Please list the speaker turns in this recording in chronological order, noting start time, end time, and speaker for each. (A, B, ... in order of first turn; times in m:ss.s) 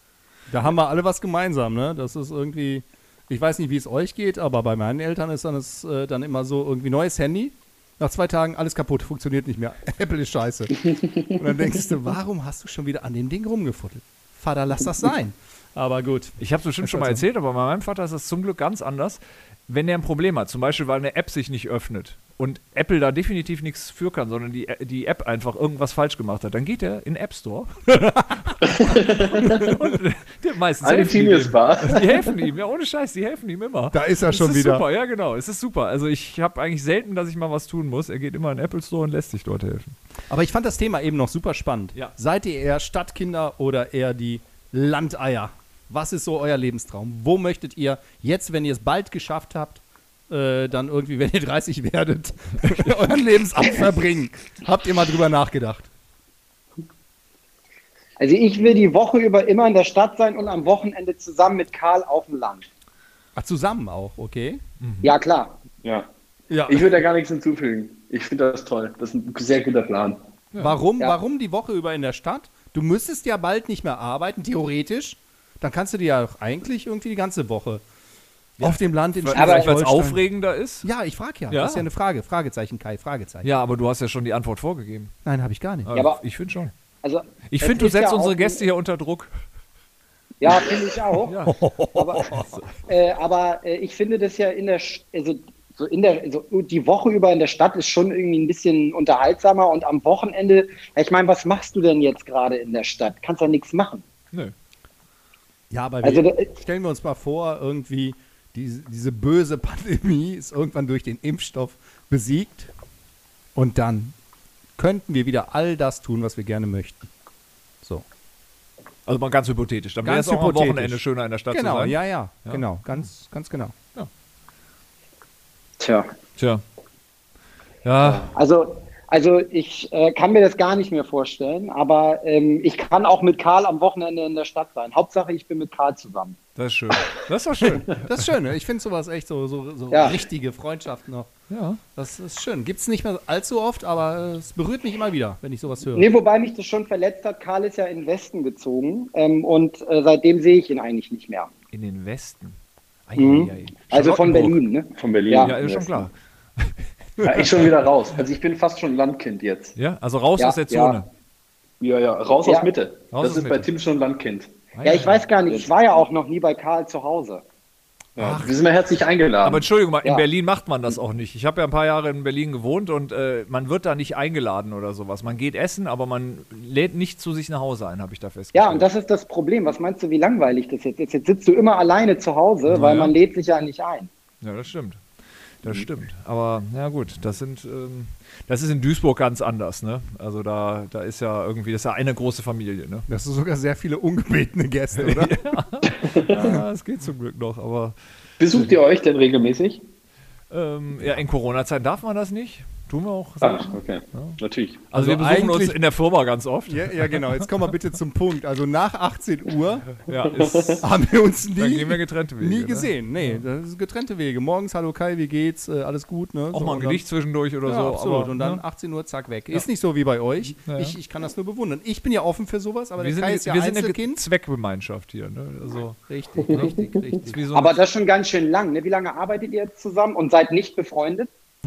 0:00.5-0:17.2 A
0:16.4-0:28.6 B
0:28.6-0:29.6 C
0:29.4-0:40.0 B
0:29.4-0:29.7 A
0:30.8-0:32.3 C
0:33.9-0:34.8 A
0:40.3-0:55.9 A
0:52.6-0:52.9 B
0:58.2-1:02.7 D
1:03.4-1:04.6 A
1:04.8-1:05.2 B
1:05.0-1:05.6 D
1:05.8-1:06.1 C
1:06.5-1:06.9 A
1:06.7-1:10.2 C
1:10.6-1:17.8 A
1:18.6-1:20.9 B
1:18.6-1:20.2 A
1:19.3-1:19.7 D
1:20.8-1:23.5 A
1:21.5-1:21.9 B
1:23.4-1:25.1 B
1:25.2-1:25.9 A
1:25.9-1:26.7 B
1:25.9-1:26.2 D
1:27.0-1:28.6 D
1:27.5-1:29.3 B
1:30.4-1:31.4 D
1:31.3-1:31.6 B
1:31.6-1:32.5 A
1:32.0-1:44.0 D
1:45.7-1:52.7 A
1:46.0-1:46.5 D
1:53.6-1:54.2 A
1:54.8-1:57.0 A
1:59.1-2:03.0 B
2:00.0-2:03.7 A
2:05.8-2:06.1 D
2:06.4-2:06.6 B
2:07.8-2:08.3 B
2:08.3-2:16.4 D
2:16.6-2:18.2 B
2:17.8-2:21.3 A
2:19.9-2:20.2 D
2:21.5-2:21.8 B
2:22.0-2:26.1 A
2:26.0-2:31.5 D
2:31.7-2:34.6 B
2:33.2-2:35.5 D
2:35.0-2:36.1 C
2:35.4-2:36.7 B
2:37.2-2:39.8 C
2:39.8-2:41.1 B
2:40.4-2:41.0 D
2:41.8-2:44.5 C
2:42.4-2:42.7 D
2:43.1-2:43.7 B
2:44.8-2:45.2 B
2:44.8-2:47.4 D
2:48.2-2:49.7 C
2:48.2-2:48.5 B
2:49.4-2:58.9 B
2:58.5-3:04.1 D
3:02.7-3:03.1 B
3:04.4-3:05.0 B
3:05.6-3:13.1 B
3:13.1-3:15.4 A
3:15.0-3:18.0 B
3:16.0-3:16.6 C
3:16.4-3:16.6 A
3:18.4-3:19.8 C
3:20.5-3:24.4 B
3:23.4-3:24.8 C
3:24.9-3:27.5 B
3:24.9-3:25.8 A
3:26.7-3:29.9 A
3:30.0-3:30.8 B
3:30.2-3:30.8 C
3:30.8-3:37.0 A
3:31.6-3:33.4 B
3:36.5-3:38.6 B
3:37.6-3:44.2 A
3:40.6-3:41.0 B
3:43.0-3:46.0 B
3:46.1-3:47.4 A
3:46.5-3:47.0 C
3:46.5-3:47.8 B
3:47.5-3:51.3 D